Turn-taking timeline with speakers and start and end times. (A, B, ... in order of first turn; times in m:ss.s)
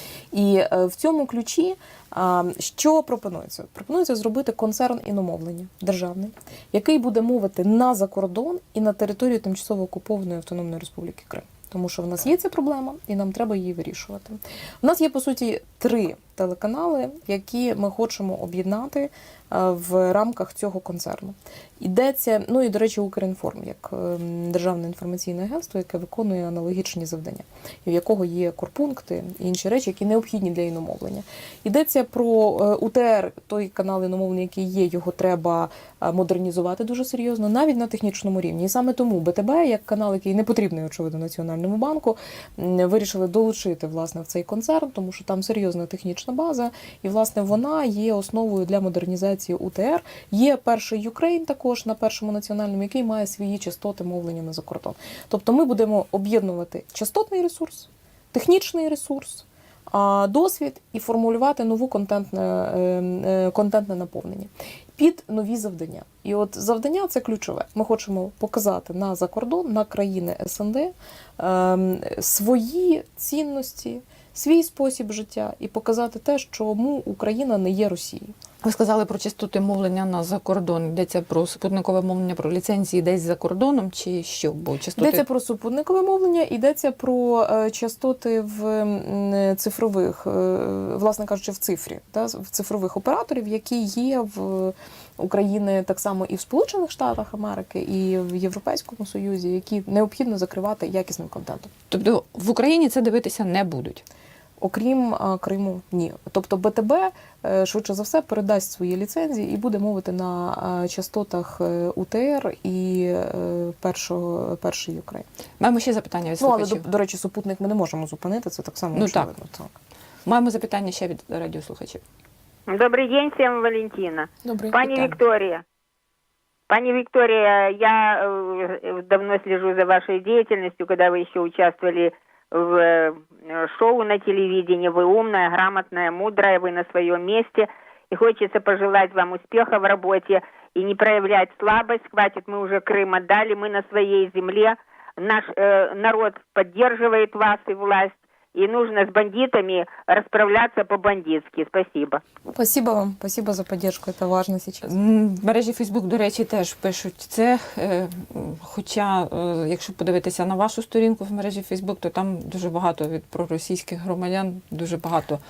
0:00.3-1:18.3 A
1:18.6-1:25.2 B
1:25.0-1:41.7 A
1:41.9-1:44.0 B
1:44.6-1:55.3 A
1:55.6-1:56.8 B
1:56.4-1:59.7 A
1:58.9-1:59.3 B
2:00.3-2:02.0 B
2:02.7-2:05.6 C
2:04.4-2:05.1 A
2:06.7-2:32.2 C
2:32.5-2:34.9 A
2:34.8-2:45.4 B